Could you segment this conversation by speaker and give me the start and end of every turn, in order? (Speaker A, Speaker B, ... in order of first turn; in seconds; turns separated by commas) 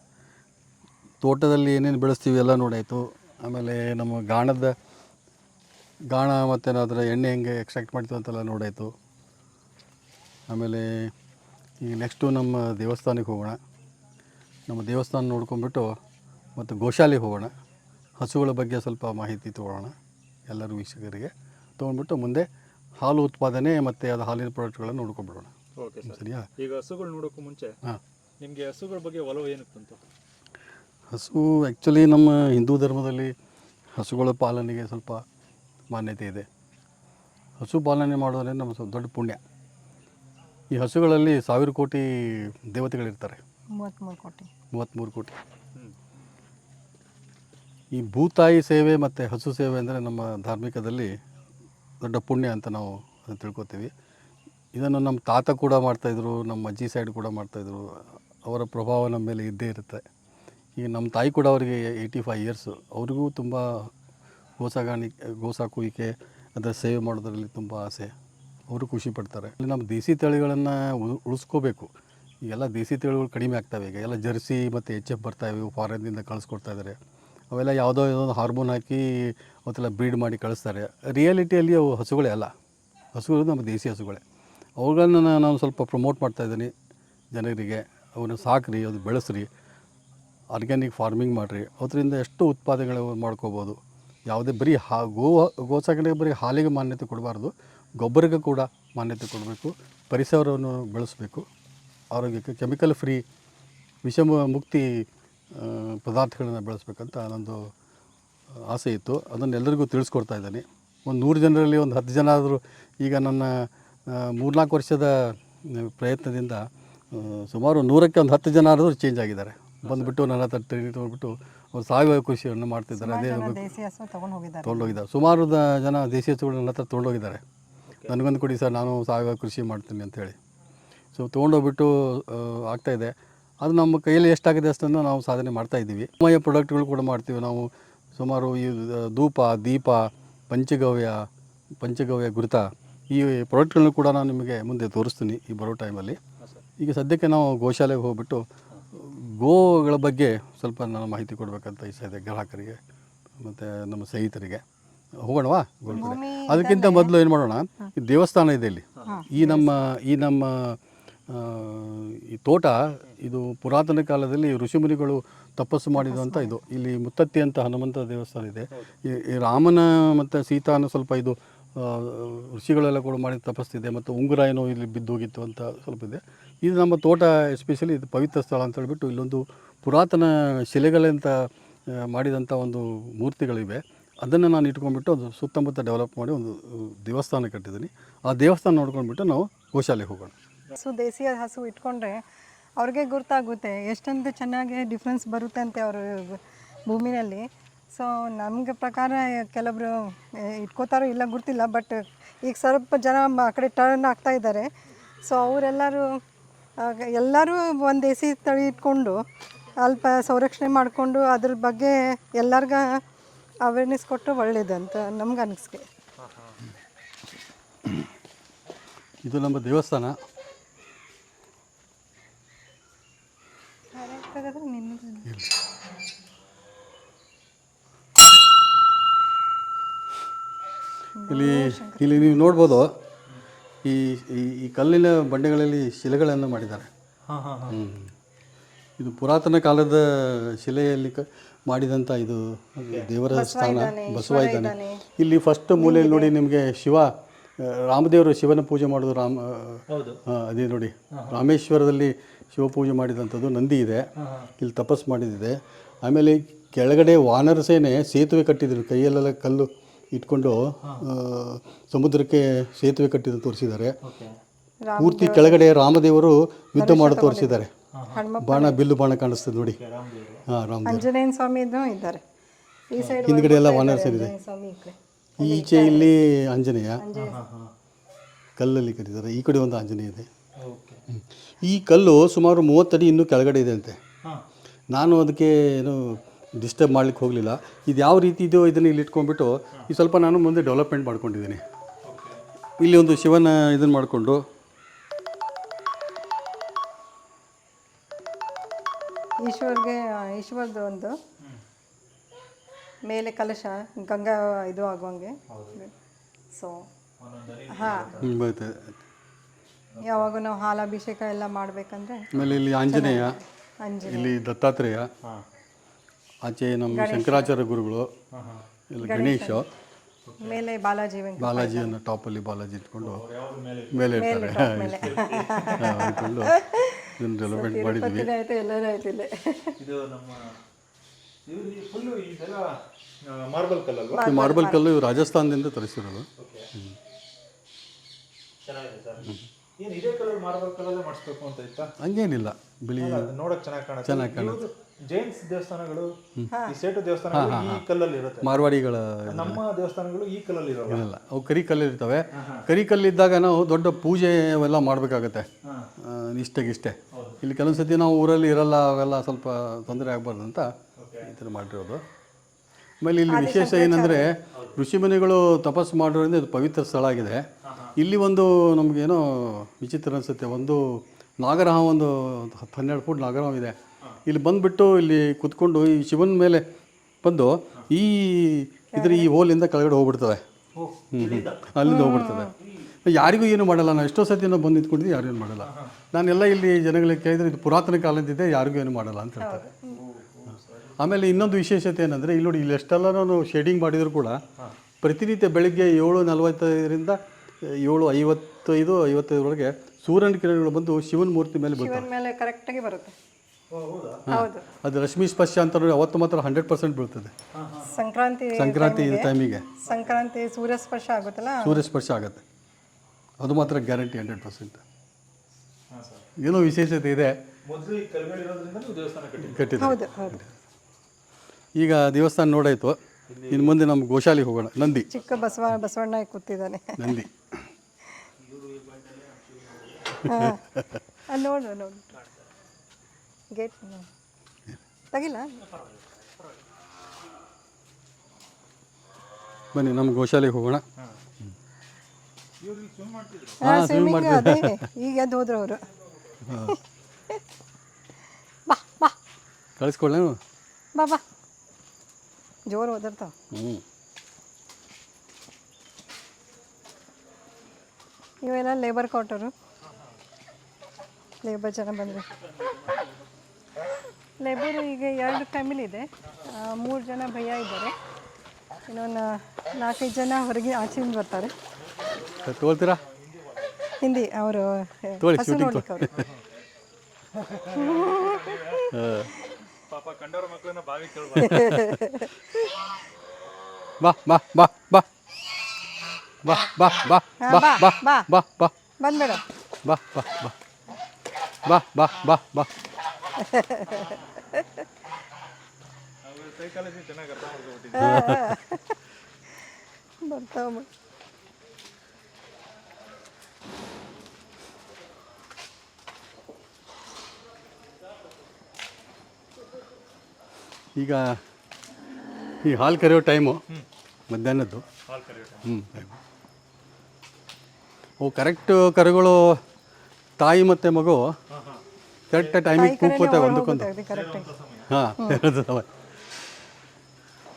Speaker A: 1.2-4.7, Speaker A: 6.1-8.9, Speaker A: 10.5-11.1, Speaker A: 11.8-13.6, Speaker A: 14.7-15.9, Speaker A: 16.6-17.5, Speaker A: 18.2-19.9, Speaker A: 20.5-22.5, Speaker A: 23.0-25.5, Speaker B: 25.8-27.7, Speaker A: 26.0-26.5, Speaker B: 28.4-30.1, Speaker A: 31.1-33.3, Speaker A: 34.0-35.2, Speaker A: 35.9-36.5, Speaker A: 37.6-39.4, Speaker A: 40.7-43.4, Speaker C: 43.8-44.5, Speaker A: 44.7-45.4, Speaker A: 47.9-51.1, Speaker A: 52.0-53.9, Speaker A: 54.7-60.0, Speaker A: 60.8-63.9, Speaker A: 64.6-68.1, Speaker A: 68.7-71.9, Speaker A: 72.4-77.0, Speaker A: 77.5-82.5, Speaker A: 83.1-84.2, Speaker A: 84.8-86.7, Speaker A: 87.3-89.5, Speaker A: 90.5-101.5, Speaker A: 102.1-103.2, Speaker A: 104.0-107.7, Speaker A: 108.5-123.6, Speaker B: 119.8-120.1, Speaker C: 123.0-125.0, Speaker A: 124.6-127.4, Speaker A: 128.1-130.4, Speaker A: 131.1-141.3, Speaker A: 141.8-146.2, Speaker A: 146.8-152.8, Speaker A: 153.4-154.6, Speaker A: 155.2-190.3, Speaker C: 155.9-157.1, Speaker B: 158.9-159.2, Speaker C: 159.1-159.7, Speaker C: 166.0-166.5, Speaker C: 190.8-192.2, Speaker C: 192.8-204.7, Speaker C: 205.2-206.2, Speaker C: 206.8-209.2, Speaker C: 209.8-213.0, Speaker C: 213.6-215.8, Speaker B: 216.2-216.6, Speaker A: 219.2-220.2, Speaker C: 223.9-225.3, Speaker A: 225.3-225.5, Speaker C: 231.2-232.4, Speaker A: 231.3-232.9, Speaker A: 233.8-236.9, Speaker B: 237.3-237.8, Speaker A: 237.7-238.1, Speaker A: 239.0-264.0, Speaker C: 243.3-245.0, Speaker C: 245.8-246.3, Speaker B: 249.9-250.2, Speaker B: 251.1-251.4, Speaker B: 254.2-254.5, Speaker B: 260.8-261.1, Speaker B: 264.0-264.3, Speaker C: 264.9-265.6, Speaker A: 265.0-267.7, Speaker C: 266.8-268.8, Speaker B: 267.9-268.2, Speaker A: 268.4-269.8, Speaker B: 269.7-270.4, Speaker A: 270.5-271.1, Speaker C: 270.9-272.2, Speaker C: 272.9-276.1, Speaker A: 273.2-274.3, Speaker A: 275.4-277.0, Speaker C: 277.0-277.4, Speaker B: 277.1-277.7, Speaker A: 278.6-280.3, Speaker B: 280.6-281.0, Speaker A: 281.1-284.0, Speaker A: 284.9-291.6, Speaker B: 292.0-292.4, Speaker A: 292.8-294.4, Speaker C: 299.4-301.2, Speaker C: 303.1-305.9, Speaker B: 305.5-305.8, Speaker C: 306.5-306.9, Speaker B: 307.2-308.4, Speaker C: 307.7-308.2, Speaker A: 308.2-308.9, Speaker B: 309.9-310.3, Speaker C: 310.0-312.3, Speaker A: 312.3-313.4, Speaker B: 312.3-312.6, Speaker C: 312.9-314.3, Speaker A: 314.1-315.1, Speaker A: 316.4-318.1, Speaker C: 316.9-317.5, Speaker B: 318.3-318.6, Speaker A: 318.9-319.7, Speaker C: 319.0-319.6, Speaker B: 320.2-320.6, Speaker C: 320.4-321.9, Speaker A: 321.4-323.2, Speaker B: 323.0-324.2, Speaker A: 323.9-325.2, Speaker C: 324.1-329.8, Speaker B: 325.0-326.3, Speaker A: 325.8-326.5, Speaker A: 327.2-328.3, Speaker B: 329.8-330.6, Speaker B: 331.4-334.3, Speaker C: 334.1-334.8, Speaker A: 334.2-336.9, Speaker B: 336.4-336.7, Speaker B: 338.6-341.9, Speaker A: 342.0-343.3, Speaker B: 343.0-346.1, Speaker A: 344.0-344.6, Speaker C: 346.5-346.8, Speaker B: 346.6-348.5, Speaker A: 347.3-347.8, Speaker A: 348.4-349.6, Speaker B: 349.3-351.1, Speaker A: 350.9-355.5, Speaker B: 352.3-352.7, Speaker B: 355.6-355.9, Speaker A: 356.0-362.0, Speaker B: 357.1-357.4, Speaker B: 361.0-361.3, Speaker A: 363.0-376.6, Speaker C: 363.3-364.3, Speaker B: 364.5-364.8, Speaker B: 367.6-367.9, Speaker A: 377.2-380.4, Speaker C: 378.9-379.3, Speaker B: 380.8-381.7, Speaker A: 381.1-382.5, Speaker C: 381.8-382.5, Speaker A: 383.0-389.6, Speaker C: 389.4-390.0, Speaker B: 389.9-391.1, Speaker A: 391.0-394.4, Speaker A: 395.0-402.1, Speaker C: 401.8-403.1, Speaker B: 403.7-404.2, Speaker A: 404.3-407.3, Speaker C: 404.3-404.7, Speaker B: 407.5-407.9, Speaker C: 407.8-411.8, Speaker A: 408.6-409.6, Speaker B: 409.9-410.1, Speaker A: 411.6-412.4, Speaker A: 413.4-414.8, Speaker B: 415.9-416.3, Speaker A: 416.4-417.4, Speaker B: 417.6-419.8, Speaker A: 419.5-420.4, Speaker C: 419.8-420.4, Speaker A: 421.8-423.0, Speaker B: 423.3-423.8, Speaker A: 423.5-425.1, Speaker C: 425.1-427.2, Speaker B: 425.1-425.5, Speaker A: 427.0-427.4, Speaker B: 428.4-430.2, Speaker C: 430.2-430.6, Speaker A: 430.2-430.8, Speaker C: 431.3-432.1, Speaker C: 433.5-434.1, Speaker C: 435.1-435.6, Speaker B: 435.7-436.6, Speaker A: 439.7-440.8, Speaker B: 442.6-443.6, Speaker A: 443.6-444.8, Speaker C: 443.6-445.9, Speaker A: 446.4-446.8, Speaker C: 448.7-449.1, Speaker A: 449.8-450.4, Speaker C: 450.9-451.2, Speaker C: 452.7-453.3, Speaker A: 453.5-453.8, Speaker C: 458.4-459.5, Speaker C: 461.4-462.3, Speaker C: 464.4-467.9, Speaker C: 468.9-471.5, Speaker A: 472.4-473.0, Speaker B: 473.0-473.8, Speaker C: 474.0-476.1, Speaker A: 475.2-476.3, Speaker B: 476.1-476.4, Speaker B: 477.3-478.9, Speaker C: 477.7-478.9, Speaker A: 478.9-479.3, Speaker B: 479.8-481.7, Speaker C: 481.4-482.3, Speaker A: 481.4-482.0, Speaker A: 484.0-485.1, Speaker A: 486.4-488.7, Speaker C: 487.4-488.3, Speaker C: 489.0-489.4, Speaker A: 489.8-490.5, Speaker A: 491.6-492.7, Speaker C: 493.4-494.7, Speaker B: 496.2-498.3, Speaker C: 497.9-499.0, Speaker A: 498.0-498.5, Speaker C: 500.2-500.9, Speaker A: 511.0-511.4, Speaker A: 512.6-513.6, Speaker A: 514.3-514.9, Speaker B: 515.1-515.7, Speaker A: 515.6-516.2, Speaker A: 518.2-519.6, Speaker A: 520.4-521.4, Speaker B: 521.5-521.8, Speaker A: 522.3-523.9, Speaker C: 522.7-524.5, Speaker B: 524.1-524.9, Speaker A: 524.9-525.9